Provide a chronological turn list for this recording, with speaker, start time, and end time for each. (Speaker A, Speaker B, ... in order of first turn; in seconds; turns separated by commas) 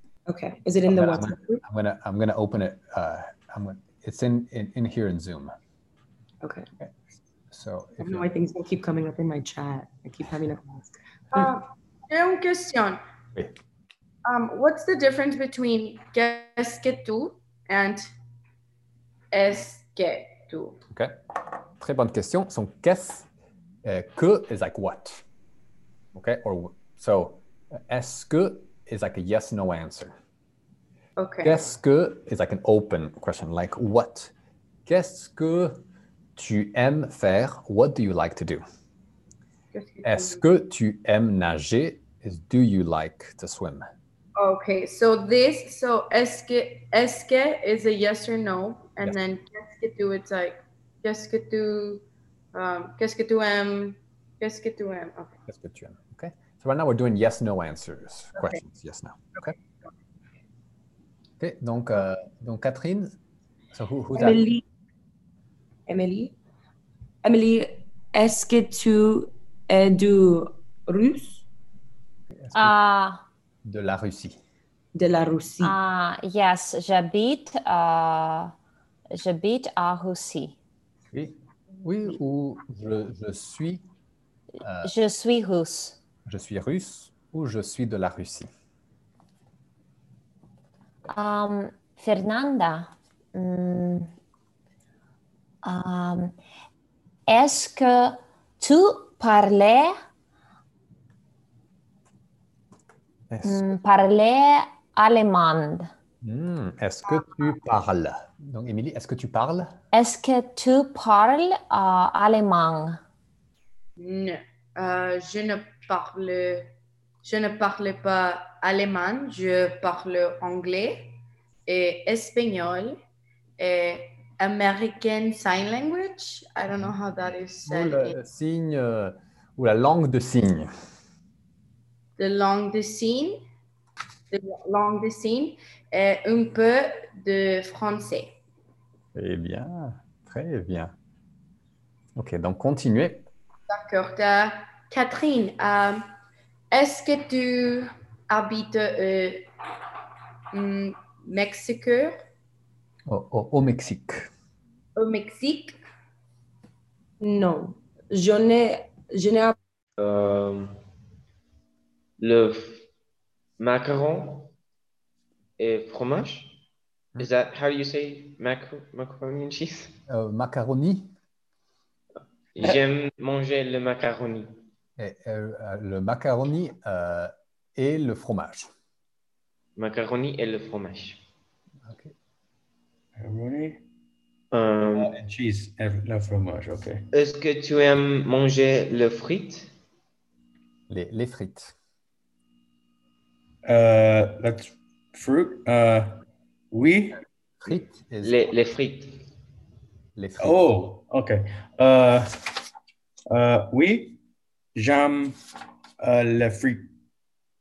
Speaker A: 0.3-1.6, Speaker B: 0.9-5.5, Speaker A: 6.4-6.7, Speaker B: 7.5-8.3, Speaker A: 8.0-11.5, Speaker C: 11.3-13.0, Speaker C: 14.2-18.0, Speaker C: 19.3-20.8, Speaker B: 21.8-23.3, Speaker B: 23.8-25.2, Speaker B: 26.1-30.1, Speaker C: 31.2-31.6, Speaker B: 31.4-34.3, Speaker B: 34.9-35.8, Speaker B: 36.4-38.6, Speaker C: 39.7-40.4, Speaker B: 40.0-43.9, Speaker C: 44.4-55.4, Speaker B: 55.5-59.5, Speaker B: 61.4-63.1, Speaker B: 63.7-64.5, Speaker A: 64.1-64.6, Speaker A: 65.9-66.3, Speaker A: 67.2-71.5, Speaker B: 72.3-72.8, Speaker D: 72.5-73.2, Speaker B: 73.6-74.4, Speaker A: 74.9-75.8, Speaker D: 75.6-78.5, Speaker D: 79.1-80.5, Speaker B: 81.1-83.8, Speaker B: 84.6-84.9, Speaker D: 84.8-86.0, Speaker B: 86.2-88.5, Speaker D: 91.1-94.1, Speaker D: 95.6-96.3, Speaker D: 97.3-99.9, Speaker B: 103.3-103.7, Speaker D: 103.4-105.9, Speaker B: 106.2-109.8, Speaker D: 109.9-113.0, Speaker C: 114.0-116.7, Speaker C: 117.2-123.0, Speaker C: 123.6-128.2, Speaker B: 127.6-130.7, Speaker C: 132.2-133.4, Speaker C: 134.3-138.3, Speaker B: 139.1-140.9, Speaker B: 142.2-143.2, Speaker C: 143.7-146.1, Speaker C: 146.7-149.5, Speaker C: 150.5-152.2, Speaker B: 153.1-154.3, Speaker C: 155.0-155.8, Speaker A: 157.2-159.6, Speaker E: 160.0-160.8, Speaker E: 162.2-162.8, Speaker E: 163.6-164.5, Speaker E: 165.6-166.6, Speaker E: 167.2-170.0, Speaker B: 170.1-171.1, Speaker E: 172.5-174.7, Speaker B: 175.0-178.7, Speaker E: 179.8-181.2, Speaker B: 181.8-182.1, Speaker F: 183.2-183.8, Speaker E: 184.5-185.2, Speaker F: 184.9-187.1, Speaker E: 187.1-189.7, Speaker B: 190.9-191.7, Speaker F: 193.6-197.2, Speaker B: 197.6-198.4, Speaker E: 198.2-199.3, Speaker B: 200.2-200.7, Speaker F: 200.4-202.4, Speaker F: 203.3-204.2, Speaker F: 204.7-205.4, Speaker F: 206.0-206.9